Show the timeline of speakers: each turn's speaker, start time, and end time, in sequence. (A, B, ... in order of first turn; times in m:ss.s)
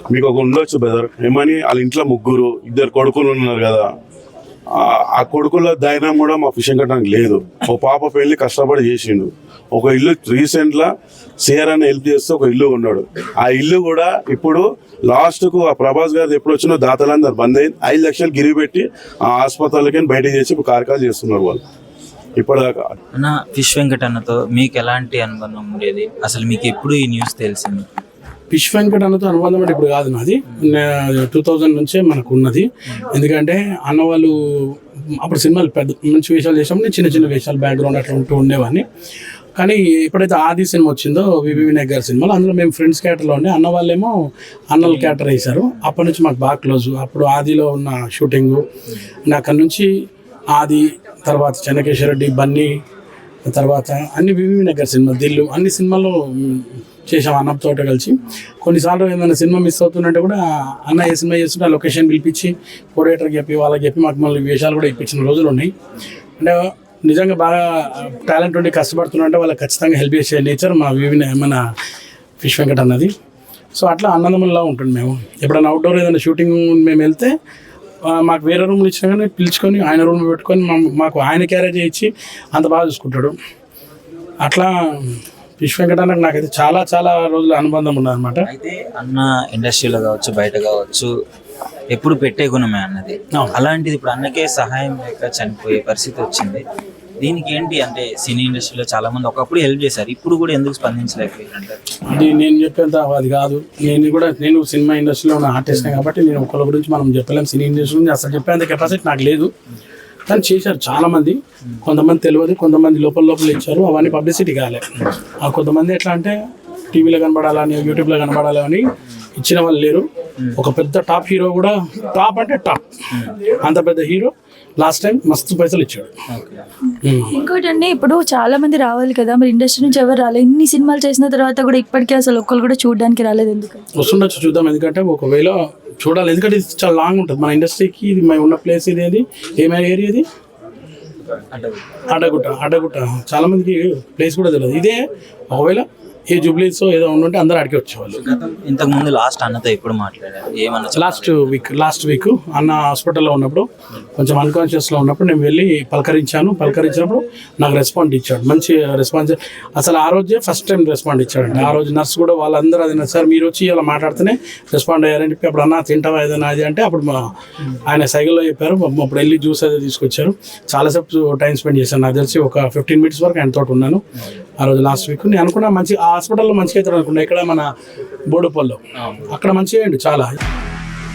0:00.1-0:03.8 A
0:04.7-0:21.6 A
0:22.4-0:22.9 A
0:23.2-0:27.8 B
0:28.5-0:38.8 C
0:39.6-0:44.1 C
0:44.7-0:48.6 C
0:44.8-0:45.2 B
0:49.3-0:49.9 C
0:50.5-0:52.7 C
0:53.5-1:05.7 C
1:06.4-1:11.6 C
1:12.4-1:13.1 C
1:13.7-1:17.4 C
1:18.1-1:23.4 C
1:24.4-1:28.4 C
1:28.5-1:31.1 B
1:31.9-1:36.6 B
1:37.2-1:41.8 B
1:42.1-1:49.5 C
1:45.7-1:46.0 B
1:50.3-1:54.9 C
1:55.4-1:56.4 C
1:56.9-1:58.8 C
1:59.4-2:02.8 C
2:03.5-2:06.1 C
2:06.3-2:06.6 B
2:07.0-2:07.3 C
2:07.4-2:13.8 D
2:14.0-2:20.2 C
2:21.5-2:21.8 B
2:22.1-2:28.2 C
2:28.1-2:31.6 B
2:30.9-2:47.3 C
2:47.8-2:54.0 C
2:54.6-2:57.7 C
2:58.3-2:58.8 C
2:59.3-3:00.3 C